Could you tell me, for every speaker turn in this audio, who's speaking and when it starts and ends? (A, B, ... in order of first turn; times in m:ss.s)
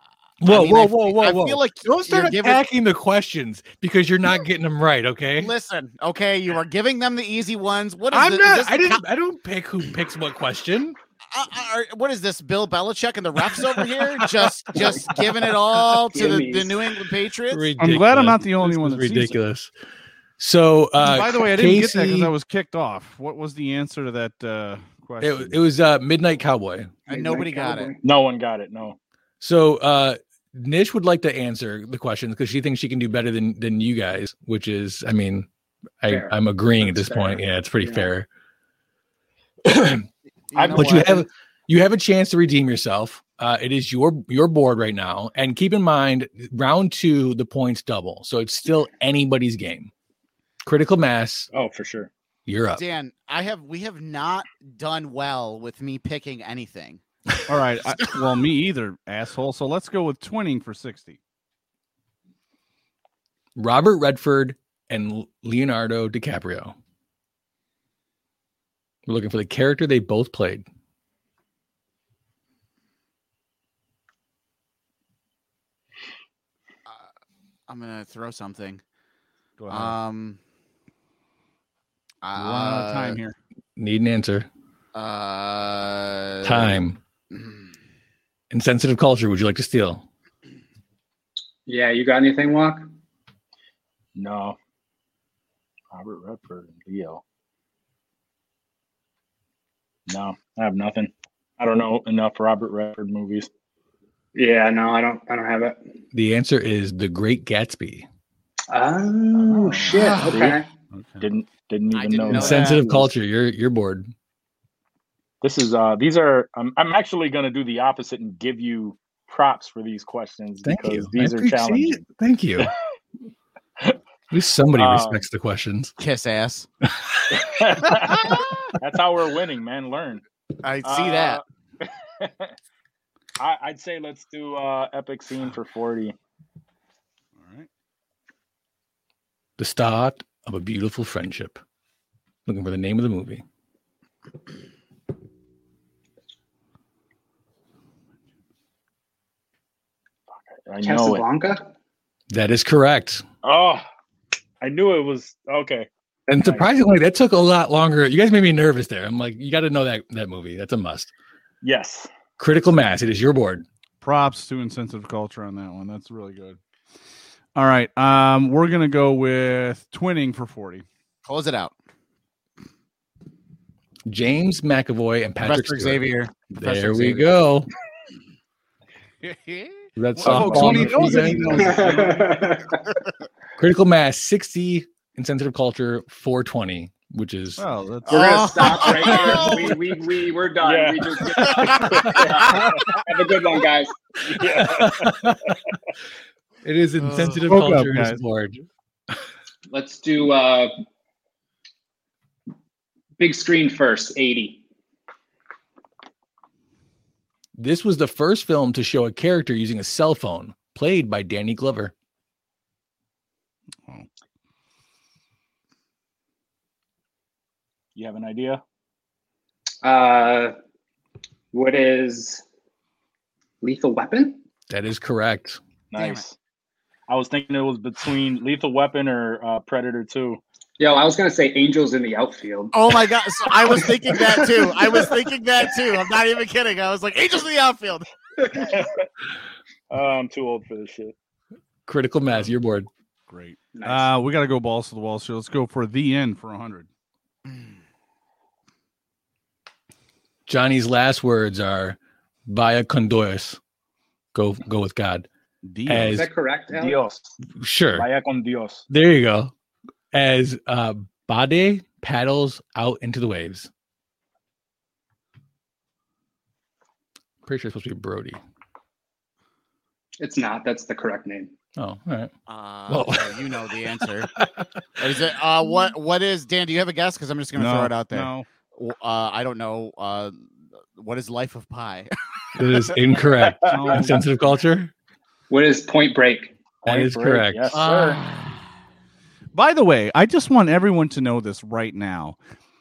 0:00.4-0:05.5 A
0:00.4-0:02.6 B
0:05.4-0:09.0 B
0:08.1-0:11.0 A
0:11.3-0:17.7 B
0:15.9-0:16.7 C
0:17.5-0:19.7 A
0:17.8-0:19.4 D
0:20.4-0:22.3 A
0:21.0-0:25.6 D
0:25.2-0:26.9 A
0:27.1-0:27.9 B
0:27.1-0:28.0 C
0:28.0-0:29.0 E
0:29.4-0:35.5 A
0:36.0-0:38.3 A
0:36.1-0:38.1 C
0:39.6-0:40.0 A
0:40.5-0:41.2 B
0:40.5-0:41.2 E
0:40.7-0:49.9 A
0:50.6-0:51.5 A
0:51.5-0:52.1 E
0:52.5-0:52.8 A
0:52.8-0:57.0 B
0:57.5-1:01.2 D
1:03.6-1:06.7 A
1:09.0-1:10.6 A
1:17.7-1:18.8 B
1:19.6-1:20.0 D
1:19.7-1:20.4 B
1:22.2-1:23.2 B
1:22.3-1:23.4 D
1:23.8-1:24.5 A
1:24.9-1:27.7 B
1:26.4-1:27.0 A
1:28.5-1:30.0 A
1:31.7-1:32.9 C
1:34.2-1:34.6 E
1:35.9-1:37.2 E
1:40.1-1:43.5 E
1:44.3-1:45.8 C
1:46.1-1:48.1 A
1:48.7-1:50.7 C
1:49.5-1:49.8 D
1:49.7-1:50.6 E
1:49.9-1:50.5 B
1:50.9-1:51.3 D
1:51.2-1:53.0 E
1:51.9-1:52.9 B
1:52.3-1:54.1 A
1:55.4-2:02.0 E
2:00.6-2:02.7 A
2:04.3-2:05.9 A
2:04.8-2:05.2 E
2:06.0-2:06.7 B
2:07.3-2:10.2 E
2:10.6-2:11.4 B
2:10.8-2:12.5 E
2:13.4-2:16.1 E
2:17.4-2:17.7 D
2:19.6-2:21.6 A
2:22.4-2:23.4 A
2:30.5-2:31.2 E
2:30.8-2:31.6 C
2:32.3-2:33.2 A
2:33.4-2:33.8 E
2:34.6-2:35.9 E
2:36.3-2:41.1 A
2:36.4-2:36.7 E
2:41.6-2:42.1 E
2:42.4-2:43.6 A
2:44.0-2:46.6 D
2:47.5-2:50.8 D
2:51.2-2:51.7 B
2:54.1-2:57.7 A
2:55.4-2:57.3 B
2:59.2-3:02.2 D
3:00.0-3:01.8 A
3:00.3-3:00.6 B
3:01.6-3:02.8 C
3:03.6-3:07.6 A
3:07.6-3:09.4 D
3:08.0-3:09.8 B
3:08.0-3:14.0 C
3:10.6-3:13.0 E
3:11.4-3:11.9 B
3:14.2-3:15.1 E
3:14.4-3:15.6 A
3:16.6-3:18.6 A
3:17.0-3:17.4 B
3:17.4-3:18.2 D
3:19.7-3:20.7 C
3:23.2-3:24.6 C
3:27.6-3:31.9 A
3:37.9-3:38.6 E
3:39.8-3:40.5 C
3:41.5-3:42.4 C
3:43.6-3:44.4 C
3:44.7-3:45.6 A
3:45.9-3:46.3 E
3:45.9-3:46.2 B
3:47.1-3:50.4 E
3:50.8-3:52.9 C
3:52.7-3:58.1 B
3:53.6-3:55.1 C
3:58.4-3:58.7 C
3:58.6-3:59.0 E
3:59.9-4:01.1 E
4:01.9-4:02.9 A
4:02.2-4:02.6 D
4:03.3-4:06.9 D
4:03.7-4:04.1 C
4:10.5-4:13.6 A
4:14.3-4:15.3 A
4:15.6-4:16.2 D
4:15.9-4:16.3 A
4:16.0-4:17.0 C
4:16.7-4:17.3 E
4:17.6-4:18.0 A
4:17.9-4:18.8 E
4:18.9-4:19.5 A
4:20.1-4:23.7 A
4:27.4-4:28.4 A
4:30.2-4:31.5 C
4:31.8-4:32.3 A
4:32.5-4:34.3 B
4:32.9-4:33.6 A
4:34.3-4:34.7 A
4:35.0-4:42.1 B
4:37.6-4:38.4 D
4:42.5-4:44.9 A
4:43.6-4:44.3 D
4:45.5-4:46.5 C
4:46.8-4:48.2 E
4:46.8-4:47.8 A
4:47.7-4:48.6 B
4:49.5-4:52.4 D